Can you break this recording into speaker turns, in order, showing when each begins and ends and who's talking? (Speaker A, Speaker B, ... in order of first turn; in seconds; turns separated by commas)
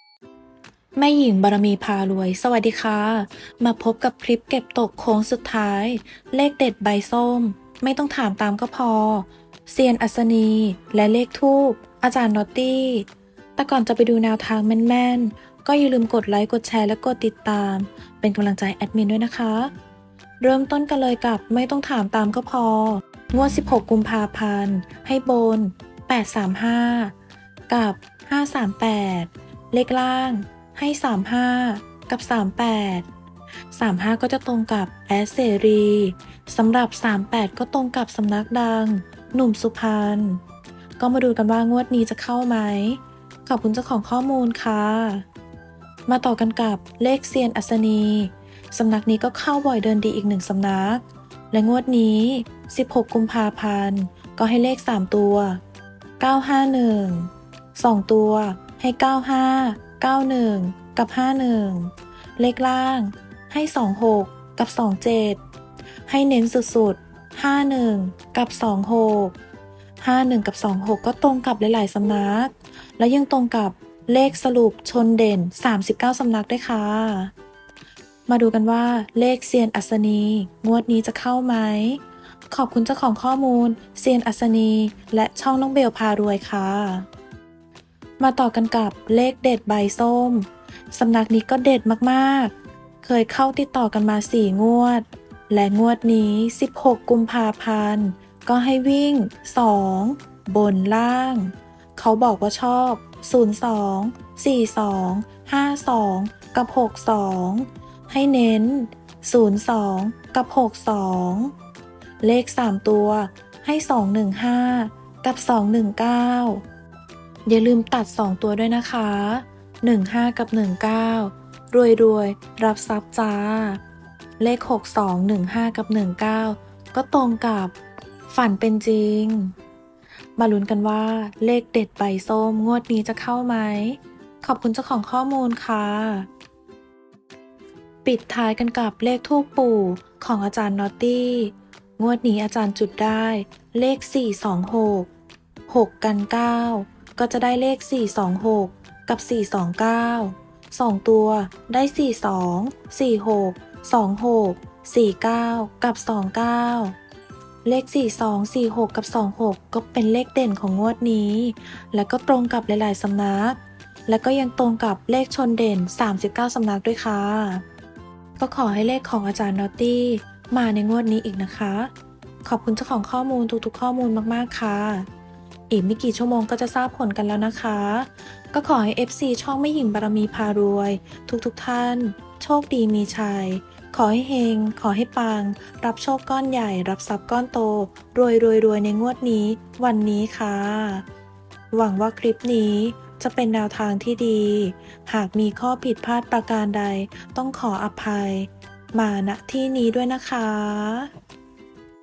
Speaker A: 0.9-19.7, Speaker A: 20.4-27.1, Speaker A: 27.7-33.1, Speaker A: 33.7-40.4, Speaker A: 41.0-45.3, Speaker A: 46.1-55.6, Speaker A: 56.2-65.4, Speaker A: 66.1-69.4, Speaker A: 70.0-77.3, Speaker A: 78.3-87.1, Speaker A: 88.2-111.5, Speaker A: 112.2-116.6, Speaker A: 117.5-123.8, Speaker A: 124.4-127.8, Speaker A: 128.3-129.5, Speaker A: 130.4-136.3, Speaker A: 138.0-145.1, Speaker A: 145.7-157.0, Speaker A: 157.6-167.6, Speaker A: 168.4-171.9, Speaker A: 172.4-175.1, Speaker A: 175.7-191.1, Speaker A: 191.7-201.1